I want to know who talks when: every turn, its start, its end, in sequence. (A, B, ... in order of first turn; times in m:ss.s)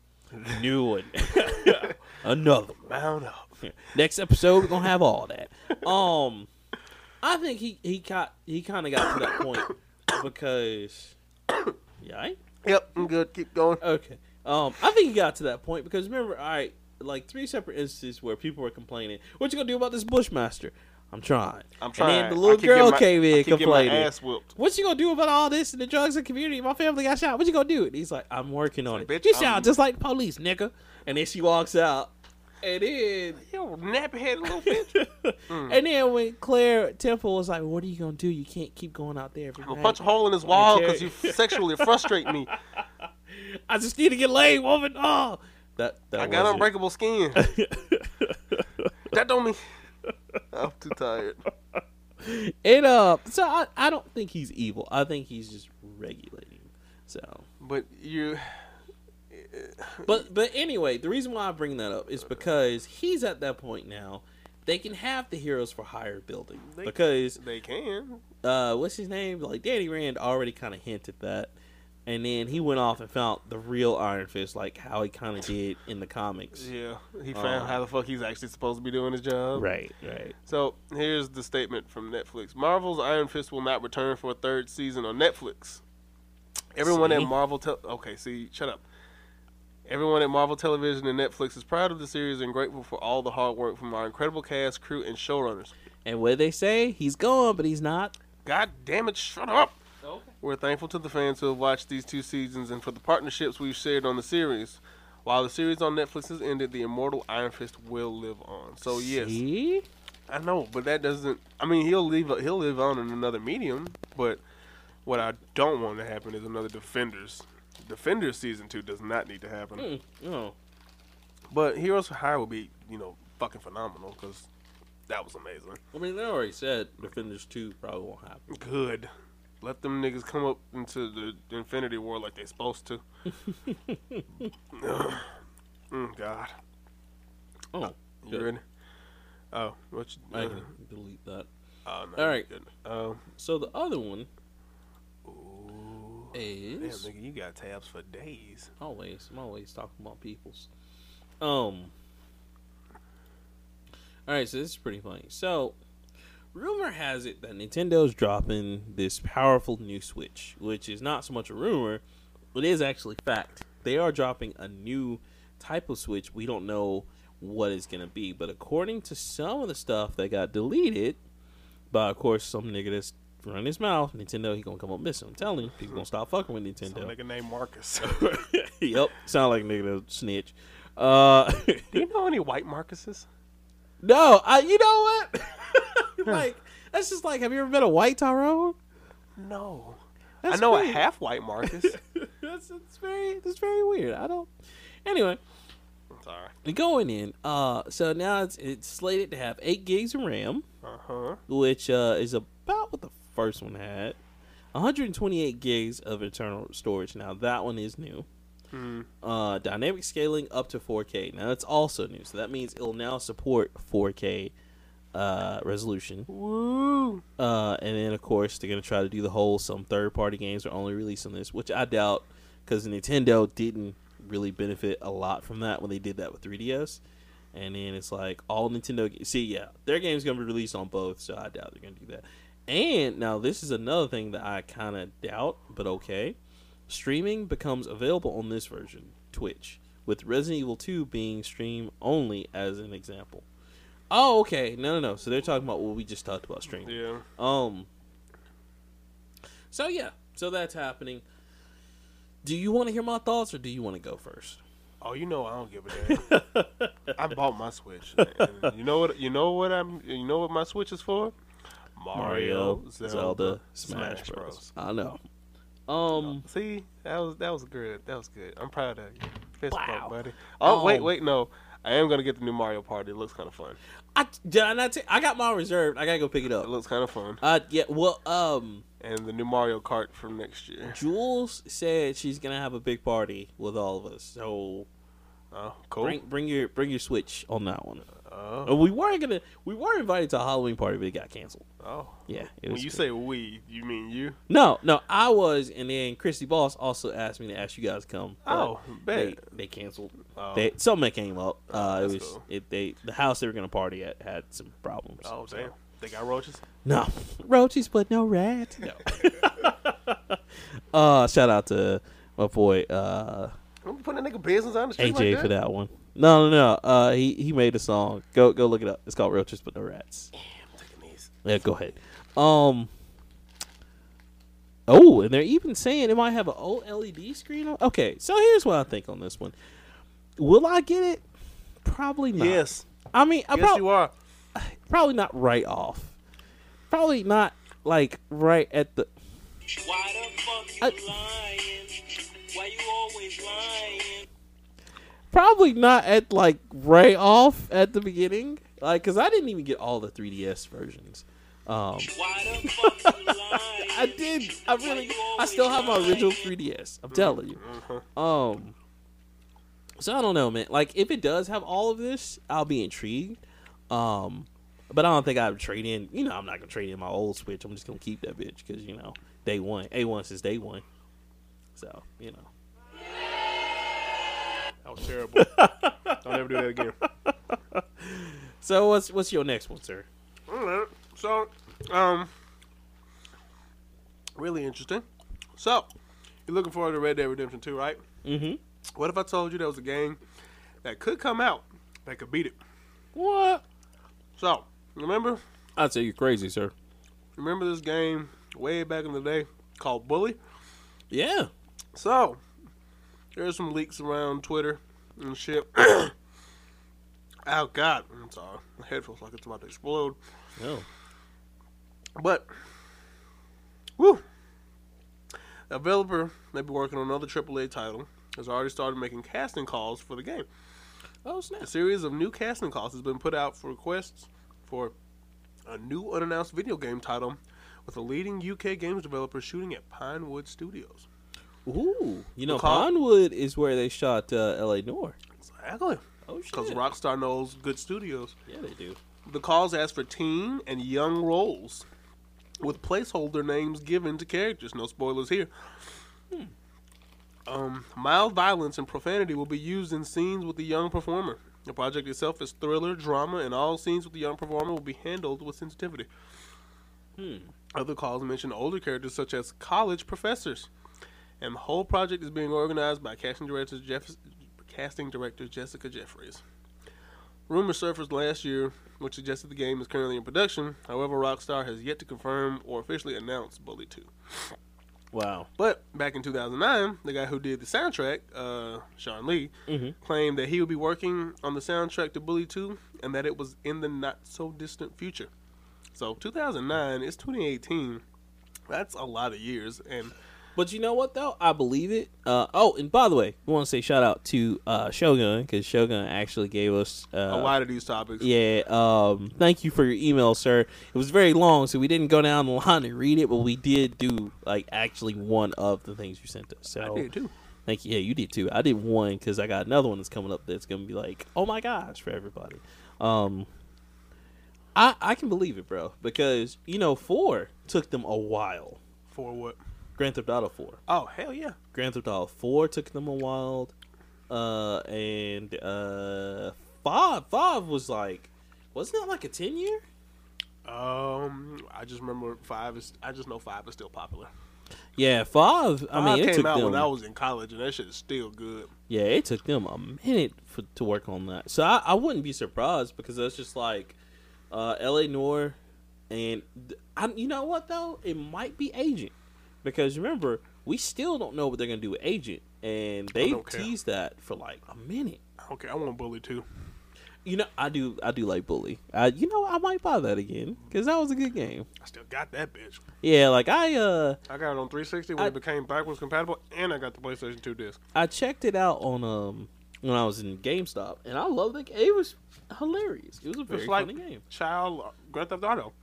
0:00.4-0:00.6 A
0:00.5-0:02.9 B
0:01.4-0:02.0 A
0:02.9-0:03.6 A
0:03.6-0:06.5 B
0:07.2-0:11.2 B
0:09.0-0:09.6 A
0:12.0-0:12.4 B
0:12.6-0:13.8 A
0:13.8-0:33.4 B
0:21.8-0:24.6 A
0:28.9-0:29.8 A
0:33.4-0:35.0 A
0:34.5-0:46.7 B
0:35.5-0:35.8 A
0:39.6-0:42.5 A
0:46.2-0:47.4 A
0:47.4-0:48.9 B
0:49.1-0:49.6 A
0:50.5-0:51.4 A
0:52.2-0:57.5 B
0:57.6-0:58.7 A
0:59.3-1:00.3 A
1:00.0-1:07.4 B
1:06.7-1:08.2 A
1:08.4-1:11.5 B
1:12.1-1:16.7 B
1:16.6-1:19.7 A
1:17.3-1:17.8 B
1:19.5-1:20.4 B
1:20.5-1:25.8 A
1:26.8-1:28.8 A
1:26.8-1:27.3 B
1:29.9-1:35.8 A
1:36.0-1:38.1 B
1:38.4-1:39.8 A
1:40.0-1:40.3 B
1:40.4-1:49.4 A
1:48.9-1:49.9 B
1:50.3-1:54.4 A
1:55.0-1:59.9 A
1:59.8-2:00.6 B
2:01.5-2:04.5 A
2:05.1-2:05.8 A
2:05.9-2:08.5 B
2:08.5-2:09.1 A
2:09.6-2:13.0 A
2:13.3-2:14.5 B
2:14.7-2:15.3 A
2:15.9-2:16.5 A
2:17.7-2:18.5 B
2:18.2-2:18.6 A
2:19.5-2:20.7 A
2:20.3-2:21.5 B
2:21.9-2:23.2 A
2:22.2-2:22.5 B
2:23.4-2:24.3 B
2:25.2-2:28.7 A
2:26.3-2:27.1 B
2:28.8-2:30.7 B
2:31.4-2:31.9 B
2:34.3-2:35.8 B
2:36.5-2:42.0 B
2:42.5-2:51.2 B
2:51.9-2:57.1 B
2:56.8-2:58.3 A
2:58.0-3:02.0 B
3:01.9-3:03.3 A
3:04.0-3:08.8 B
3:09.4-3:12.0 A
3:10.4-3:11.0 B
3:11.6-3:14.5 B
3:15.0-3:15.4 B
3:16.1-3:16.5 A
3:16.6-3:20.6 B
3:20.8-3:21.4 A
3:21.5-3:24.2 B
3:24.7-3:28.3 B
3:28.7-3:29.1 A
3:29.2-3:34.5 B
3:35.1-3:36.3 B
3:36.3-3:37.2 A
3:37.4-3:47.0 B
3:47.5-3:56.4 B
3:56.9-4:03.4 B
4:04.1-4:07.9 B
4:06.8-4:07.2 A
4:09.7-4:11.2 B
4:12.4-4:14.6 B
4:15.0-4:16.3 A
4:16.0-4:17.0 B
4:17.2-4:21.3 A
4:18.2-4:18.7 B
4:22.0-4:24.7 A
4:22.1-4:25.2 B
4:25.9-4:26.4 B
4:26.2-4:33.8 A
4:29.7-4:31.1 B
4:34.2-4:36.7 B
4:36.6-4:37.4 A
4:37.4-4:38.8 B
4:39.0-4:41.0 A
4:40.9-4:44.9 B
4:45.5-4:46.2 A
4:46.0-4:48.1 B
4:48.2-4:48.8 A
4:48.6-4:51.7 B
4:51.8-4:54.4 A
4:52.3-4:53.0 B
4:54.5-5:05.7 B
4:58.5-4:59.4 A
5:00.4-5:00.7 A
5:01.7-5:02.4 A
5:05.2-5:06.6 A
5:06.8-5:10.4 B
5:10.9-5:13.6 B
5:13.8-5:15.5 A
5:15.0-5:20.3 B
5:20.4-5:21.3 A
5:21.4-5:22.9 B
5:24.9-5:29.6 B
5:30.4-5:31.2 B
5:31.8-5:33.9 B
5:32.4-5:32.9 A
5:33.5-5:34.1 A
5:34.6-5:36.2 B
5:36.9-5:39.1 B
5:39.8-5:44.3 C
5:40.8-5:41.1 B
5:45.3-5:57.6 B
5:52.2-5:56.5 C
5:57.1-5:58.0 A
5:58.2-5:58.8 B
6:00.0-6:10.8 B
6:11.8-6:12.5 B
6:14.8-6:15.5 A
6:15.4-6:20.1 B
6:16.2-6:17.0 A
6:20.5-6:22.3 A
6:24.4-6:25.9 A
6:26.5-6:28.0 A
6:28.2-6:28.6 B
6:29.0-6:30.2 A
6:30.8-6:32.6 A
6:33.2-6:33.6 B
6:34.4-6:35.4 A
6:35.8-6:36.7 B
6:37.4-6:40.4 A
6:41.1-6:41.5 B
6:41.9-6:42.4 A
6:43.4-6:46.2 A
6:47.5-6:50.2 A
6:50.6-6:50.9 B
6:52.2-6:52.5 A
6:54.0-6:54.2 A
6:55.7-7:00.5 A
7:01.2-7:01.7 B
7:01.6-7:05.0 A
7:05.7-7:11.1 A
7:11.7-7:15.2 B
7:12.5-7:12.9 A
7:15.4-7:18.4 A
7:16.3-7:16.8 B
7:18.5-7:19.0 B
7:19.3-7:21.9 A
7:22.6-7:25.5 A
7:27.5-7:36.1 A
7:37.2-7:37.5 B
7:37.7-7:40.7 A
7:41.4-7:46.4 A
7:47.5-7:54.6 A
7:55.1-7:55.5 B
7:55.6-8:05.3 A
7:59.7-8:00.0 B
8:05.9-8:08.0 A
8:08.7-8:10.1 A
8:10.6-8:17.6 B
8:17.3-8:18.3 A
8:18.2-8:27.1 B
8:26.8-8:27.3 A
8:27.7-8:33.5 B
8:34.8-8:38.8 B
8:39.1-8:39.6 A
8:40.0-8:40.8 B
8:40.9-8:41.6 A
8:41.7-8:43.7 B
8:44.3-8:49.8 B
8:50.6-8:54.3 A
8:55.0-8:56.9 B
8:55.9-8:58.7 A
8:58.9-9:04.0 B
9:04.5-9:05.6 B
9:06.1-9:15.2 B
9:13.2-9:13.7 A
9:15.4-9:16.5 A
9:17.2-9:21.7 B
9:21.8-9:22.8 A
9:23.0-9:24.2 B
9:24.3-9:27.8 A
9:28.0-9:34.2 B
9:33.5-9:35.7 A